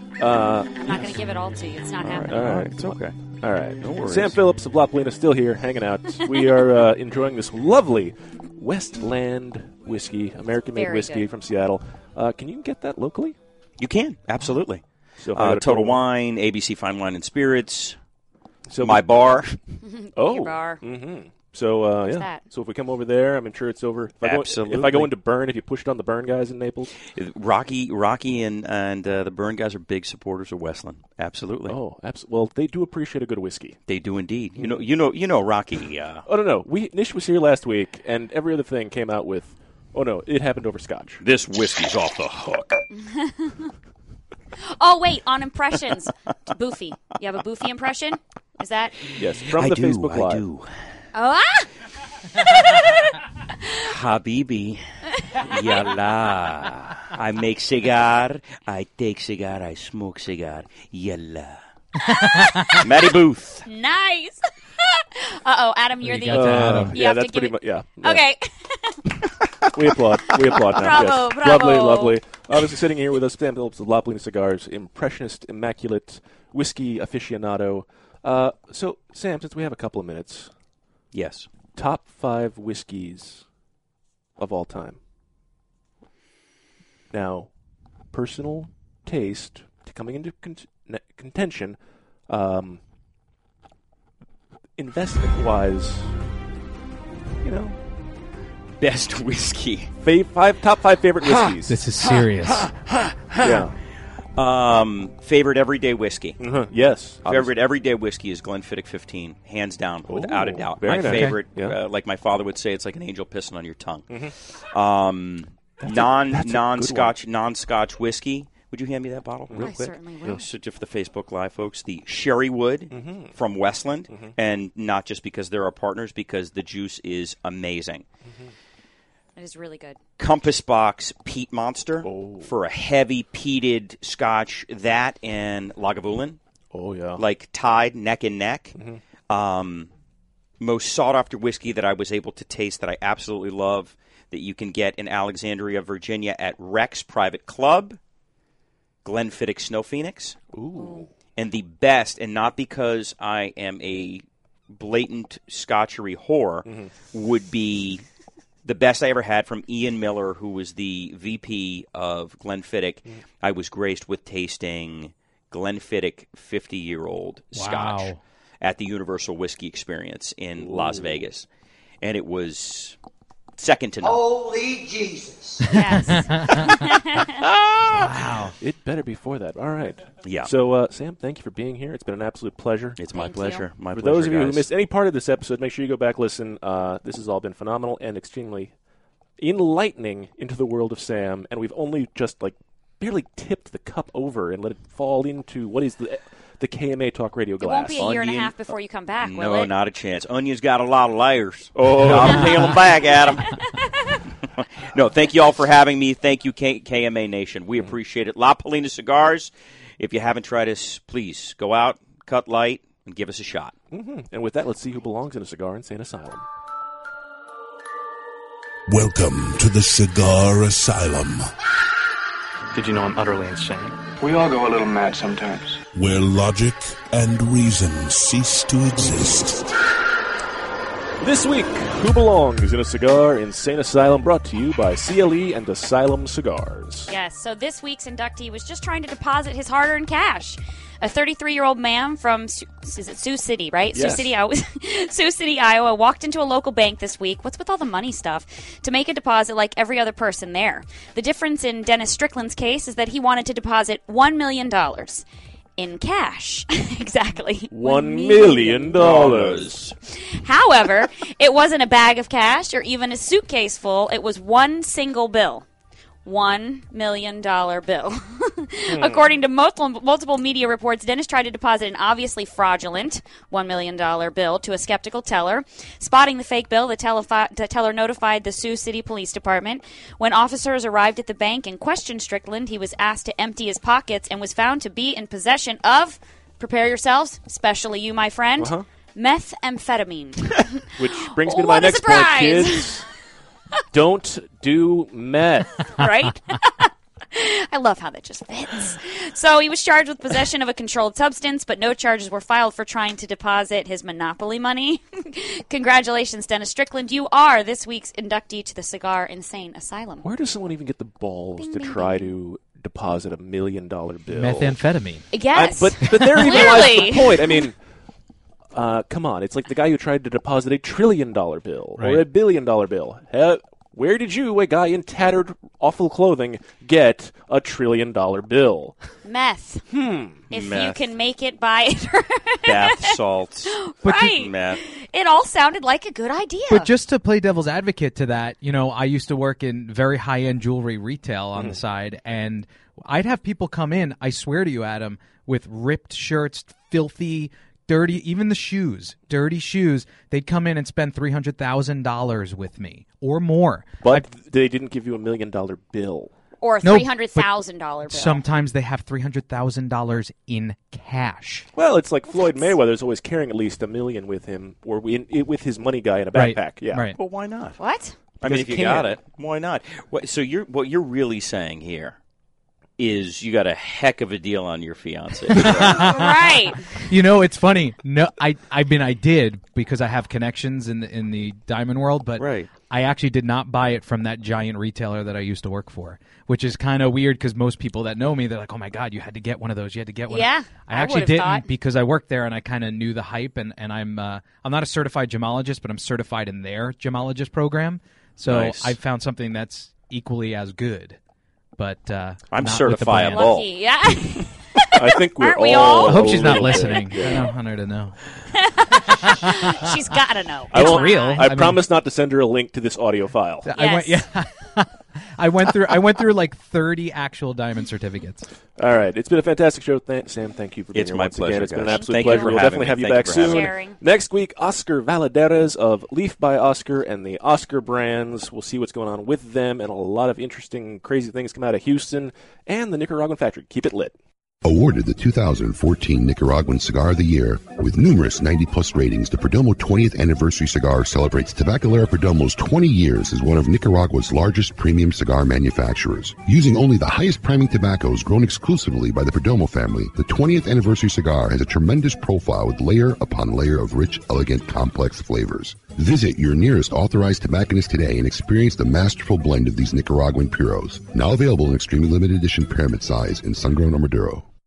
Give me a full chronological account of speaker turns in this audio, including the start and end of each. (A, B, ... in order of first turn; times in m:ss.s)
0:00.2-0:01.2 A
0:00.8-0:02.3 B
0:02.0-0:03.2 C
0:02.3-0:13.4 A
0:03.7-0:04.4 C
0:10.8-0:11.3 B
0:13.8-0:14.8 C
0:15.2-0:16.0 A
0:15.3-0:18.0 C
0:18.7-0:19.1 A
0:18.8-0:19.6 C
0:19.8-0:20.8 B
0:20.2-0:26.9 A
0:22.1-0:22.4 B
0:24.2-0:25.1 C
0:27.2-0:31.8 C
0:31.7-0:33.8 A
0:33.9-0:36.2 C
0:34.6-0:34.9 A
0:36.3-0:41.2 A
0:41.2-0:42.8 C
0:42.9-0:43.7 B
0:44.8-0:49.1 B
0:49.2-0:50.4 A
0:49.5-0:50.7 C
0:51.1-0:51.7 B
0:52.4-0:53.0 B
0:53.8-0:54.8 C
0:55.4-1:01.6 C
1:02.1-1:03.1 B
1:02.8-1:03.6 C
1:03.6-1:04.4 B
1:05.2-1:09.0 B
1:06.0-1:07.0 D
1:06.3-1:08.2 A
1:09.7-1:20.5 A
1:10.7-1:12.2 B
1:21.1-1:21.5 C
1:21.8-1:23.4 A
1:24.4-1:25.0 A
1:27.1-1:27.5 A
1:28.1-1:31.8 A
1:32.3-1:32.8 A
1:34.8-1:36.1 A
1:37.4-1:37.8 A
1:38.8-1:39.9 C
1:40.0-1:41.8 A
1:41.7-1:42.7 D
1:43.4-1:43.8 A
1:44.4-1:46.4 C
1:46.4-1:47.5 A
1:47.2-1:54.0 C
1:50.1-1:51.8 A
1:51.0-1:51.4 D
1:54.7-2:08.0 C
1:55.8-1:57.2 A
1:59.5-2:00.4 A
1:59.5-2:00.4 B
2:02.9-2:03.4 A
2:04.1-2:04.4 A
2:09.4-2:10.0 B
2:10.2-2:16.4 C
2:12.0-2:12.5 A
2:16.7-2:17.2 A
2:17.2-2:18.8 C
2:19.3-2:19.9 C
2:20.6-2:28.0 C
2:29.0-2:30.4 C
2:30.5-2:31.1 A
2:30.8-2:31.1 B
2:31.4-2:38.0 C
2:36.6-2:36.9 A
2:38.6-2:51.5 C
2:47.5-2:48.2 D
2:50.6-2:51.2 A
2:52.0-2:53.0 C
2:53.6-2:54.3 C
2:55.7-2:57.4 B
2:55.7-2:56.7 D
2:57.4-3:03.0 A
2:57.9-2:58.5 D
3:00.2-3:00.5 C
3:03.0-3:04.7 C
3:03.1-3:03.7 B
3:03.9-3:08.7 A
3:09.4-3:18.1 A
3:17.6-3:19.7 B
3:18.0-3:18.6 C
3:19.2-3:23.4 C
3:21.8-3:22.8 A
3:23.0-3:24.2 B
3:24.9-3:33.7 C
3:33.9-3:36.4 A
3:38.9-3:41.5 E
3:42.7-3:45.8 F
3:45.9-3:49.7 E
3:51.2-3:57.1 A
3:57.1-4:15.3 B
4:03.9-4:04.4 A
4:15.8-4:19.0 B
4:17.7-4:19.8 A
4:19.0-4:19.9 C
4:20.4-4:25.7 B
4:26.2-4:53.0 B
4:28.9-4:29.4 A
4:48.6-4:48.8 A
4:51.0-4:53.0 A
4:53.9-4:56.0 A
4:55.9-5:10.3 B
5:10.2-5:14.8 A
5:11.6-5:12.3 B
5:14.3-5:15.2 D
5:15.3-5:17.7 B
5:15.5-5:17.8 A
5:16.2-5:16.8 D
5:18.7-5:29.0 A
5:22.0-5:22.2 D
5:29.2-5:29.8 B
5:29.9-5:30.4 A
5:30.5-5:31.1 C
5:30.5-5:36.9 B
5:32.7-5:34.8 C
5:36.7-5:54.2 D
5:54.0-5:56.3 A
5:56.6-5:58.4 B
5:56.8-5:57.5 D
5:58.1-6:01.7 D
6:01.8-6:07.1 A
6:02.3-6:02.7 B
6:06.4-6:07.2 D
6:07.1-6:07.8 C
6:07.8-6:08.2 B
6:08.4-6:12.2 C
6:08.4-6:09.2 A
6:13.0-6:16.2 C
6:15.5-6:16.3 D
6:15.9-6:16.9 B
6:17.1-6:41.2 D
6:22.4-6:22.7 C
6:30.3-6:31.7 B
6:38.4-6:39.0 C
6:41.8-6:43.5 D
6:42.5-6:43.7 C
6:43.2-6:47.0 B
6:44.9-6:47.5 A
6:46.1-6:48.2 D
6:48.6-6:51.4 B
6:50.7-6:51.8 D
6:50.7-6:53.7 A
6:53.7-6:58.5 D
6:53.7-6:54.2 B
6:58.8-7:14.2 A
7:00.9-7:03.7 C
7:01.8-7:02.7 B
7:03.3-7:04.0 B
7:14.6-7:44.5 G